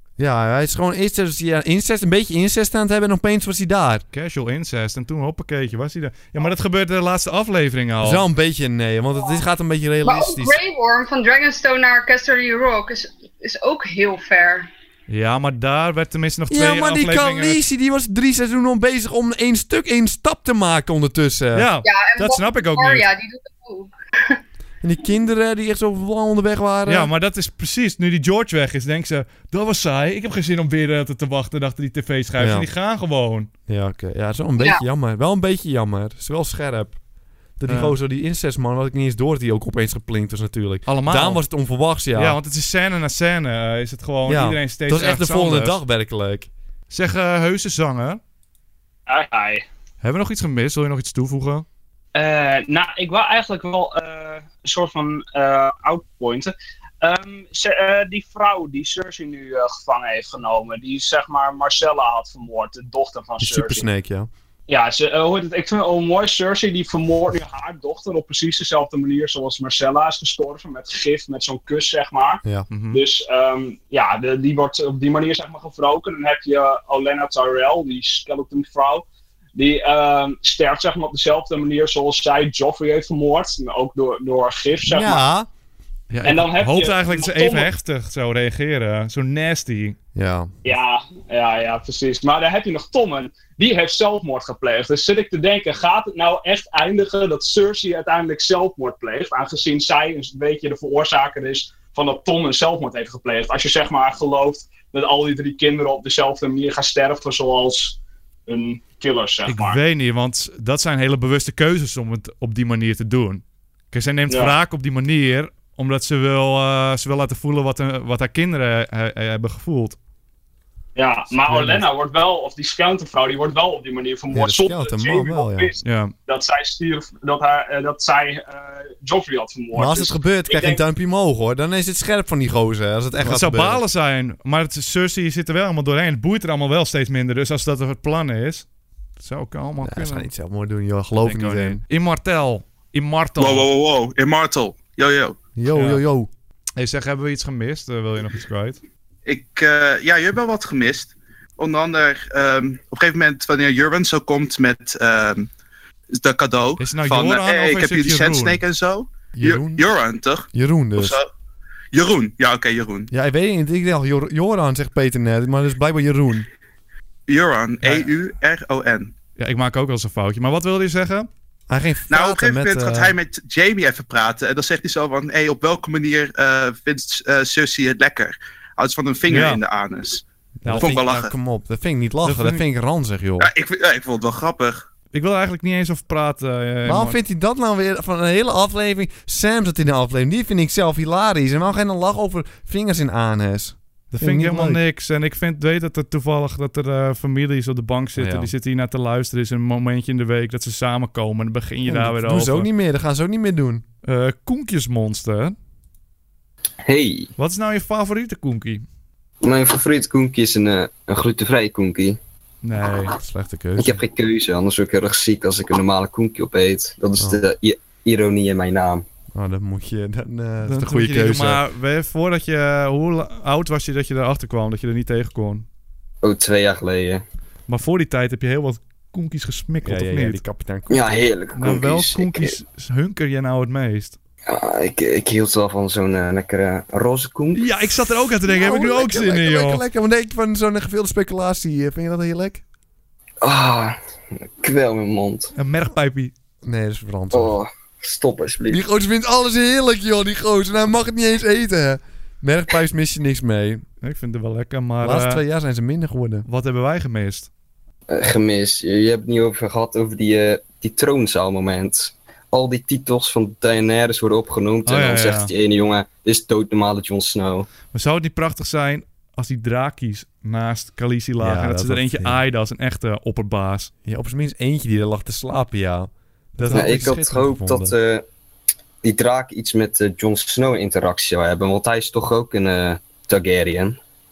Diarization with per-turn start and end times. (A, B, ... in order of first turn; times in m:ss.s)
0:00.2-0:04.0 A
0:04.1-0:08.2 B
0:08.0-0:10.6 A
0:09.1-0:09.4 C
0:10.0-0:14.7 C
0:15.1-0:17.6 B
0:16.5-0:21.7 A
0:21.6-0:23.1 B
0:21.8-0:24.4 C
0:24.8-0:27.1 A
0:26.9-0:33.5 B
0:32.4-0:32.7 A
0:33.7-0:37.0 A
0:34.6-0:34.8 C
0:37.6-0:42.4 A
0:37.7-0:38.0 B
0:40.9-0:41.4 B
0:42.2-0:45.8 B
0:44.3-0:46.5 A
0:46.9-0:48.2 B
0:49.1-0:49.6 D
0:50.0-0:51.7 B
0:52.2-1:03.9 D
1:03.4-1:04.3 A
1:04.7-1:25.2 D
1:12.7-1:13.0 B
1:24.8-1:25.5 A
1:26.1-1:30.0 B
1:26.2-1:27.7 D
1:30.2-1:30.5 A
1:30.6-1:49.8 D
1:49.5-2:00.0 B
1:54.3-1:54.5 D
2:01.0-2:10.8 D
2:01.5-2:01.8 B
2:04.3-2:05.7 A
2:05.8-2:06.1 B
2:09.7-2:13.8 A
2:13.2-2:18.7 B
2:19.2-2:20.3 B
2:19.8-2:21.8 A
2:21.2-2:23.7 B
2:23.4-2:25.4 E
2:25.6-2:26.3 A
2:25.7-2:26.0 B
2:26.8-2:28.8 B
2:29.3-2:35.5 E
2:36.1-2:40.5 E
2:36.8-2:38.6 B
2:39.3-2:39.9 A
2:40.5-2:41.2 A
2:41.0-2:41.3 E
2:41.9-2:43.1 E
2:43.1-2:46.5 A
2:47.3-2:49.1 E
2:47.8-2:48.1 B
2:49.4-2:51.3 B
2:51.7-2:53.2 A
2:52.1-3:01.3 E
2:59.3-2:59.6 B
3:00.6-3:03.5 A
3:00.6-3:01.0 B
3:02.2-3:02.6 B
3:03.4-3:04.8 E
3:05.1-3:07.2 B
3:06.8-3:14.8 A
3:14.1-3:22.7 B
3:18.2-3:18.5 A
3:21.9-3:23.8 A
3:24.0-3:25.6 B
3:26.8-3:27.3 F
3:27.4-3:28.9 B
3:29.4-3:32.2 F
3:32.6-3:33.2 B
3:33.2-3:34.0 A
3:33.8-3:39.0 F
3:39.3-3:41.6 A
3:40.6-3:45.7 B
3:46.2-3:47.2 F
3:47.7-3:50.4 B
3:49.8-3:51.2 A
3:50.9-3:52.6 F
3:51.6-3:54.2 B
3:54.5-3:57.6 F
3:57.6-3:59.8 B
3:58.5-4:02.6 A
4:03.4-4:05.5 F
4:05.6-4:06.3 B
4:06.6-4:07.6 A
4:07.3-4:08.8 F
4:08.7-4:13.8 A
4:14.0-4:15.4 B
4:15.0-4:16.5 A
4:16.5-4:17.5 B
4:18.1-4:27.7 F
4:24.9-4:25.5 B
4:27.9-4:33.9 B
4:31.4-4:32.4 A
4:34.0-4:38.0 A
4:36.6-4:37.1 B
4:36.7-4:38.2 F
4:39.0-4:44.0 F